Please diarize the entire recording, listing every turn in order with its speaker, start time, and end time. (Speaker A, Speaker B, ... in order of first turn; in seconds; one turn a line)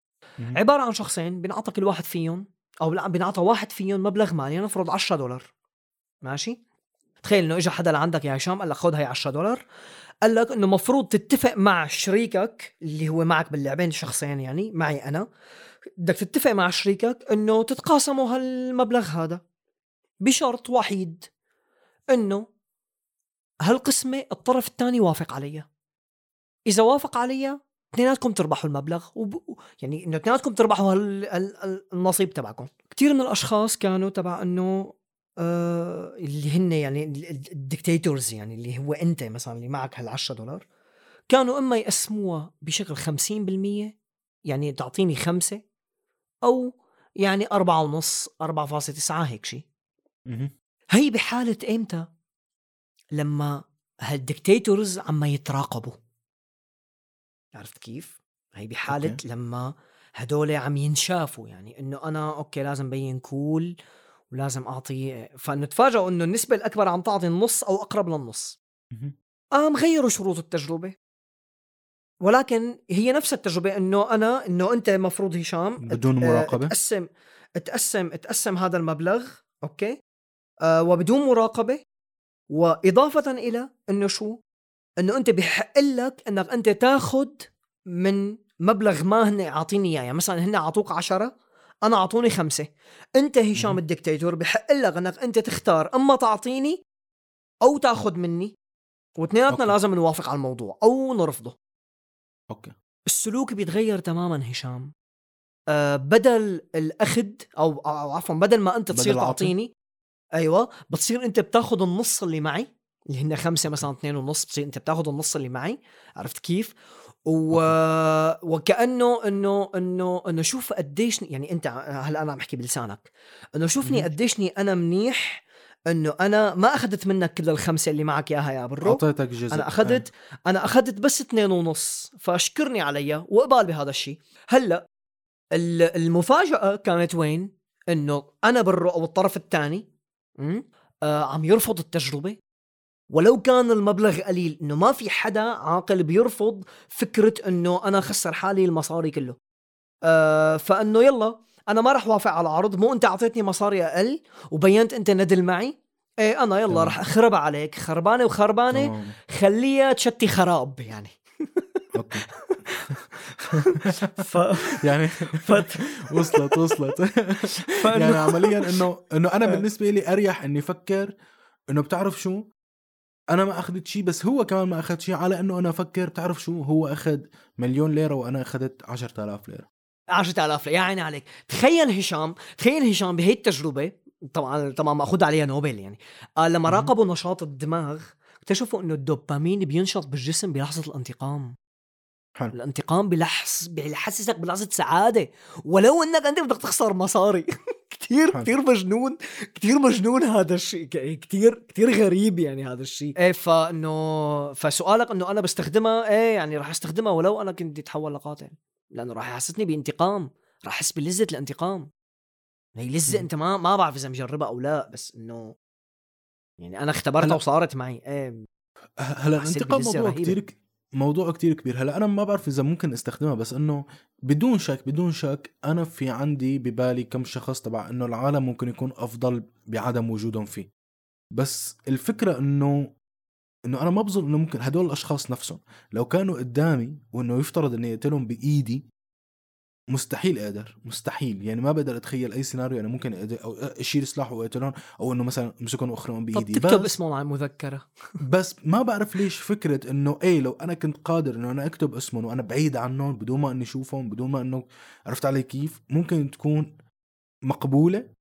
Speaker A: 0.5-5.5
Speaker A: 6.2-6.6
Speaker A: 7.2-9.6
Speaker A: 10.2-15.2
Speaker A: 16.0-19.4
Speaker A: 20.2-21.3
Speaker A: 22.1-22.4
Speaker A: 23.7-25.7
Speaker A: 26.7-40.6
Speaker A: 41.3-43.9
Speaker A: 44.5-45.6
Speaker A: 46.5-49.6
Speaker A: 51.0-52.0
Speaker A: 53.2-53.5
Speaker A: 54.1-55.9
Speaker A: 57.5-63.7
Speaker B: 58.9-59.2
Speaker A: 64.3-68.6
Speaker A: 69.6-70.9
Speaker A: 72.2-77.1
Speaker B: 75.8-76.7
Speaker A: 77.6-79.9
Speaker A: 80.7-81.8
Speaker A: 82.5-84.3
Speaker A: 85.0-91.3
Speaker A: 91.9-96.8
Speaker A: 97.7-98.5
Speaker A: 99.2-101.5
Speaker A: 103.1-104.9
Speaker A: 105.7-109.7
Speaker B: 108.9-109.5
Speaker A: 110.4-116.8
Speaker A: 117.3-134.8
Speaker B: 123.8-124.1
Speaker B: 128.8-130.1
Speaker A: 135.6-139.8
Speaker A: 140.4-142.4
Speaker A: 143.1-149.4
Speaker A: 150.1-164.8
Speaker B: 156.7-157.0
Speaker B: 158.7-159.2
Speaker B: 161.9-162.3
Speaker B: 163.5-163.9
Speaker B: 164.7-171.1
Speaker A: 165.3-166.8
Speaker A: 167.5-168.8
Speaker B: 171.7-172.4
Speaker B: 173.3-179.7
Speaker A: 180.2-191.5
Speaker A: 192.5-211.9
Speaker A: 212.8-215.5
Speaker A: 216.6-218.4
Speaker B: 219.0-230.7
Speaker A: 219.4-220.4
Speaker B: 231.3-232.9
Speaker B: 233.7-238.9
Speaker B: 239.9-246.9
Speaker A: 246.3-247.9
Speaker B: 248.2-256.7
Speaker B: 257.5-258.1